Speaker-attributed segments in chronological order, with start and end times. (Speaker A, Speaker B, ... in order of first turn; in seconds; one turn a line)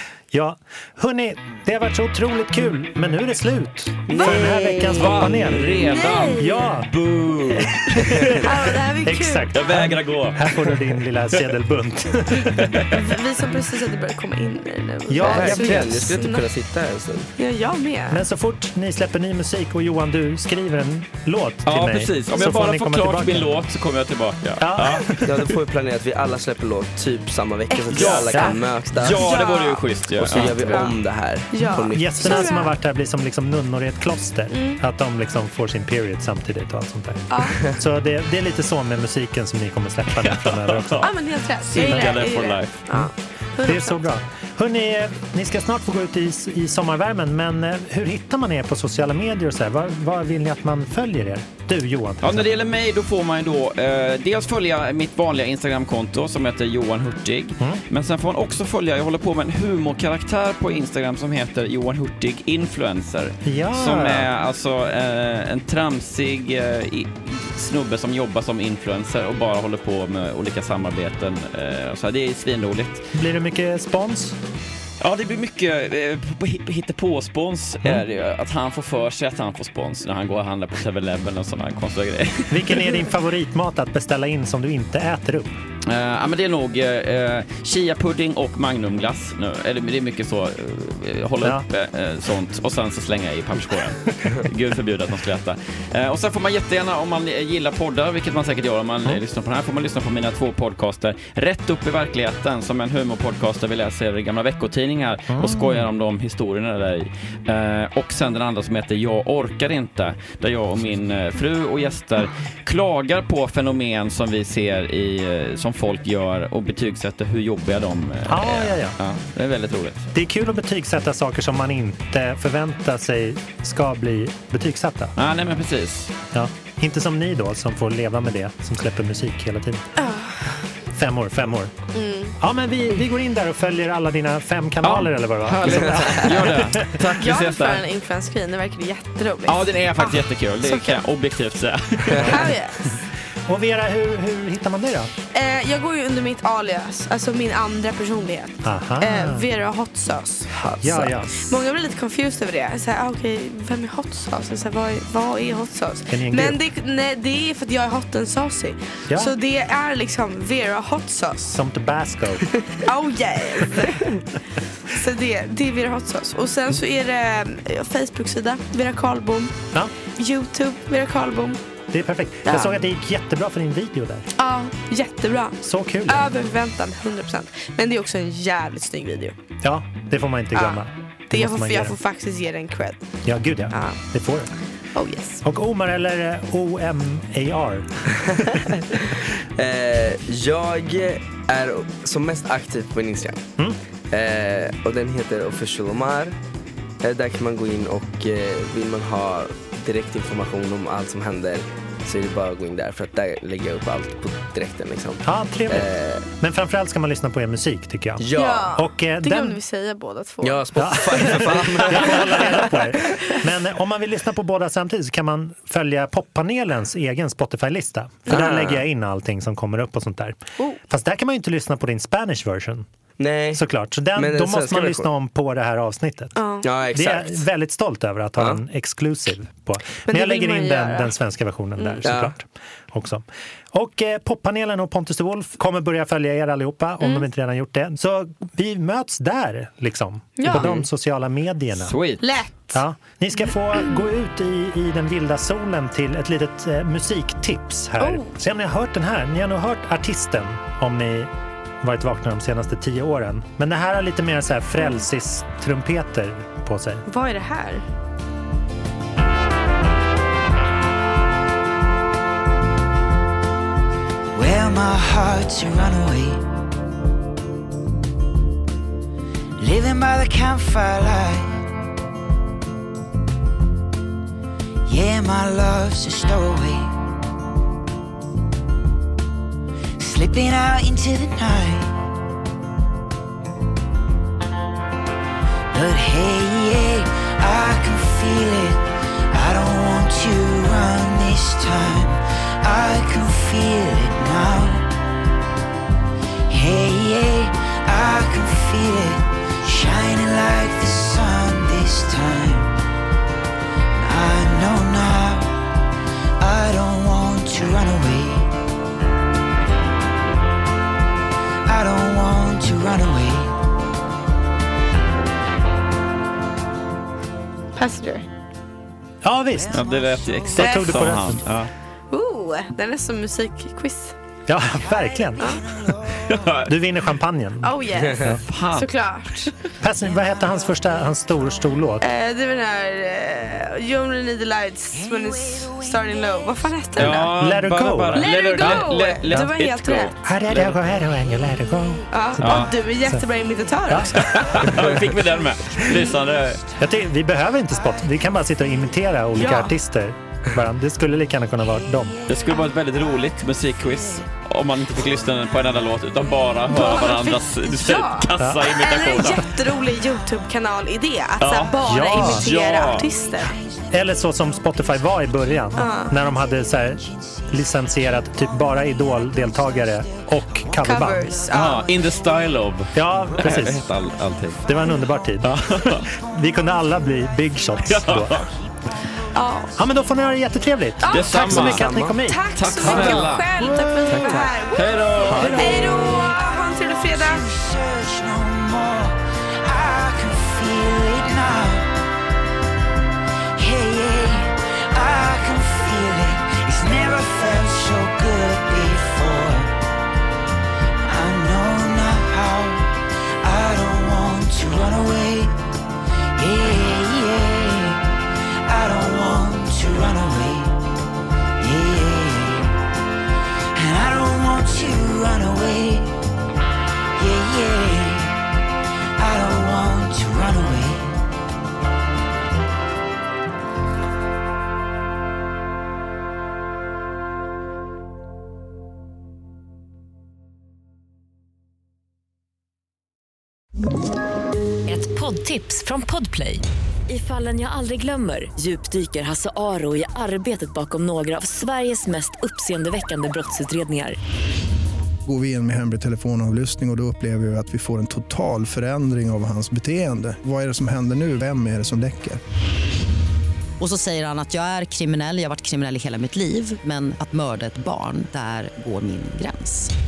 Speaker A: 0.3-6.9
Speaker B: 4.1-5.5
Speaker C: 4.2-8.7
Speaker D: 5.7-6.7
Speaker A: 7.6-8.4
Speaker D: 8.4-9.5
Speaker A: 9.1-12.8
Speaker C: 9.5-10.8
Speaker D: 12.9-16.4
Speaker A: 15.1-16.1
Speaker B: 15.2-17.3
Speaker D: 17.4-18.2
Speaker A: 18.1-23.5
Speaker C: 21.7-25.5
Speaker A: 24.6-25.2
Speaker B: 25.2-32.5
Speaker D: 27.7-29.8
Speaker C: 27.9-30.9
Speaker D: 30.4-30.9
Speaker D: 31.5-32.7
Speaker A: 31.9-41.1
Speaker D: 34.5-34.8
Speaker D: 37.3-37.6
Speaker C: 40.2-42.8
Speaker D: 41.0-44.0
Speaker A: 41.8-42.1
Speaker A: 43.7-52.5
Speaker C: 52.2-73.1
Speaker A: 63.5-64.3
Speaker A: 73.1-74.4
Speaker C: 75.0-83.0
Speaker A: 82.5-85.5
Speaker C: 85.8-120.1
Speaker A: 105.3-105.8
Speaker A: 118.3-119.0
Speaker A: 120.1-125.1
Speaker C: 125.2-126.1
Speaker A: 126.3-129.8
Speaker D: 130.0-130.4
Speaker A: 130.9-131.7
Speaker D: 131.9-132.4
Speaker A: 132.4-137.0
Speaker C: 134.8-137.9
Speaker B: 135.7-136.1
Speaker D: 137.2-141.0
Speaker C: 139.5-142.5
Speaker A: 142.2-142.4
Speaker D: 142.2-142.9
Speaker A: 143.5-145.1
Speaker D: 145.3-150.5
Speaker A: 148.6-149.4
Speaker B: 150.5-151.2
Speaker A: 150.8-151.6
Speaker D: 151.4-161.6
Speaker A: 156.1-156.6
Speaker A: 161.5-162.5
Speaker D: 162.7-164.3
Speaker D: 164.9-169.6
Speaker D: 170.2-171.6
Speaker A: 171.9-174.3
Speaker D: 172.4-172.7
Speaker D: 174.4-179.4
Speaker A: 175.6-176.3
Speaker A: 179.6-181.9
Speaker D: 180.6-183.1
Speaker A: 183.2-184.5
Speaker D: 183.7-184.0
Speaker D: 184.9-185.4
Speaker A: 185.4-188.2
Speaker B: 188.2-193.4
Speaker B: 194.1-196.4
Speaker B: 197.0-206.3
Speaker A: 205.2-209.6
Speaker B: 208.2-208.7
Speaker D: 208.3-213.4
Speaker B: 210.4-212.7
Speaker A: 210.7-222.9
Speaker B: 218.3-218.8
Speaker B: 223.2-223.6
Speaker A: 223.6-226.4
Speaker B: 224.1-225.1
Speaker D: 226.3-226.7
Speaker B: 226.6-227.4
Speaker A: 226.9-241.9
Speaker D: 230.1-231.1
Speaker D: 231.8-232.1
Speaker B: 232.0-232.3
Speaker D: 237.0-237.3
Speaker D: 240.4-240.7
Speaker B: 240.5-240.8
Speaker C: 241.9-242.3
Speaker D: 242.2-242.8
Speaker A: 242.7-251.3
Speaker D: 248.0-248.3
Speaker A: 251.8-257.1
Speaker D: 257.1-257.8
Speaker E: 264.3-266.4
Speaker E: 269.6-271.6
Speaker E: 274.9-276.9
Speaker E: 280.0-281.9
Speaker E: 285.7-294.9
Speaker E: 296.5-302.7
Speaker E: 303.9-305.5
Speaker E: 306.4-308.5
Speaker E: 311.6-313.5
Speaker D: 317.7-318.2
Speaker A: 319.2-319.8
Speaker E: 319.5-321.2
Speaker C: 319.7-321.7
Speaker A: 320.6-321.4
Speaker D: 320.6-321.1
Speaker D: 322.1-324.1
Speaker A: 324.5-325.4
Speaker E: 324.7-326.7
Speaker D: 325.4-325.7
Speaker C: 326.3-326.7
Speaker A: 326.6-328.4
Speaker D: 327.6-329.5
Speaker C: 328.4-328.9
Speaker A: 329.8-332.1
Speaker E: 330.0-331.1
Speaker D: 332.0-337.3
Speaker E: 334.9-336.0
Speaker C: 336.9-340.8
Speaker A: 337.3-339.5
Speaker D: 338.2-340.1
Speaker A: 340.2-343.2
Speaker D: 342.1-344.6
Speaker C: 342.4-342.7
Speaker A: 343.9-344.6
Speaker C: 344.2-346.6
Speaker D: 345.8-346.2
Speaker A: 346.8-352.2
Speaker D: 349.4-349.7
Speaker E: 352.3-352.6
Speaker C: 352.3-359.6
Speaker D: 356.7-363.5
Speaker A: 358.4-358.7
Speaker C: 361.4-363.1
Speaker A: 361.9-362.4
Speaker E: 363.0-364.9
Speaker A: 363.9-371.3
Speaker D: 365.7-366.1
Speaker E: 369.2-372.4
Speaker D: 370.8-371.9
Speaker C: 371.5-374.6
Speaker A: 372.9-373.8
Speaker A: 374.7-378.4
Speaker C: 375.4-376.1
Speaker E: 377.7-378.5
Speaker C: 377.9-378.5
Speaker D: 379.3-379.7
Speaker A: 379.8-383.3
Speaker D: 381.0-387.6
Speaker C: 381.1-381.9
Speaker B: 381.5-382.3
Speaker C: 382.6-385.9
Speaker B: 384.1-384.6
Speaker A: 385.3-385.9
Speaker E: 385.8-391.9
Speaker E: 393.6-399.7
Speaker E: 401.1-405.5
Speaker E: 406.4-408.0
Speaker E: 408.7-410.7
Speaker E: 411.6-412.7
Speaker E: 413.8-416.1
Speaker E: 417.2-418.4
Speaker E: 419.2-421.2
Speaker F: 434.9-444.2
Speaker G: 445.3-452.4
Speaker H: 453.8-459.9